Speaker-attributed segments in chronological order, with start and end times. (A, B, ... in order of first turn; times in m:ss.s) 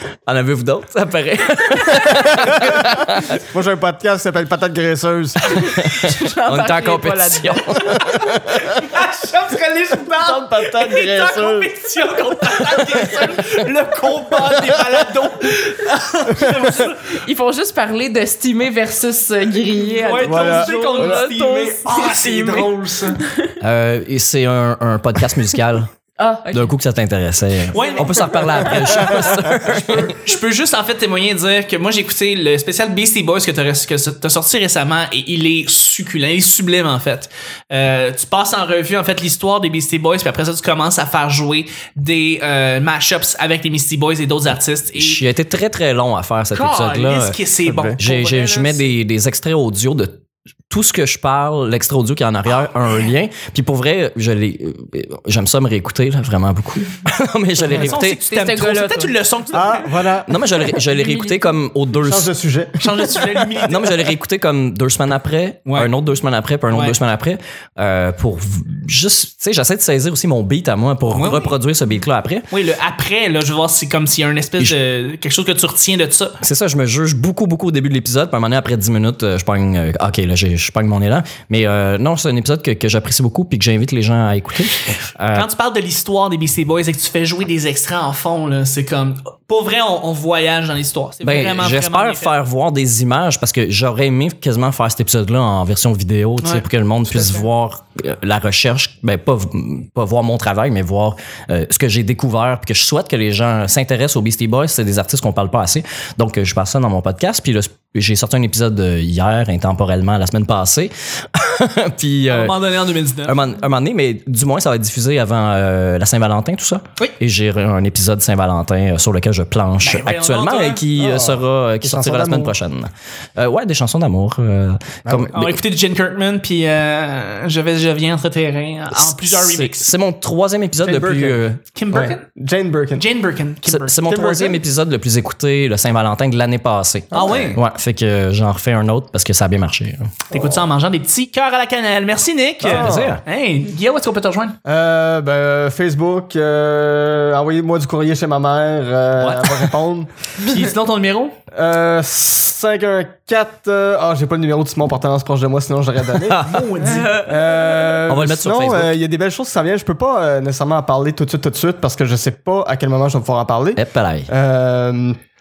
0:00.3-0:03.4 A
0:02.1-0:05.6 B
0:05.5-0:08.0 C
0:05.6-0:08.2 A
0:08.1-0:08.8 B
0:08.4-0:17.2 D
0:10.1-0:11.7 B
0:12.7-0:13.1 B
0:16.3-0:16.6 B
0:17.0-0:23.6 C
0:20.0-0:23.2 D
0:20.2-0:21.3 B
0:23.6-0:25.9 A
0:26.2-0:26.7 C
0:26.5-0:30.2 A
0:27.7-0:45.2 D
0:45.0-0:47.4 A
0:46.5-0:48.9 D
0:47.7-0:48.0 B
0:48.0-0:58.2 A
0:57.6-1:00.0 D
0:58.3-0:59.2 C
0:59.5-1:00.4 B
1:00.3-1:02.3 A
1:00.6-1:01.6 C
1:02.0-1:03.3 B
1:02.8-1:04.1 D
1:03.6-1:12.5 A
1:06.7-1:07.0 D
1:11.1-1:11.6 D
1:12.5-1:16.4 D
1:16.4-1:25.5 A
1:25.3-1:32.3 D
1:31.2-1:52.7 A
1:36.4-1:37.5 D
1:52.3-1:53.4 D
1:53.2-2:05.6 A
1:59.8-2:00.8 D
2:01.0-2:02.6 B
2:05.1-2:05.3 B
2:05.3-2:09.9 D
2:08.9-2:11.6 A
2:10.8-2:11.4 B
2:11.7-2:12.2 D
2:11.9-2:13.1 B
2:13.0-2:14.0 D
2:13.7-2:20.2 A
2:14.0-2:14.6 B
2:17.1-2:17.6 D
2:17.1-2:17.5 B
2:20.3-2:24.6 D
2:22.6-2:23.2 A
2:22.6-2:23.2 B
2:24.6-2:30.1 B
2:29.2-2:29.7 A
2:30.4-2:31.4 D
2:31.5-2:36.4 B
2:36.2-2:37.0 A
2:36.4-2:37.3 D
2:37.0-2:45.2 B
2:37.9-2:38.9 A
2:43.8-2:44.3 A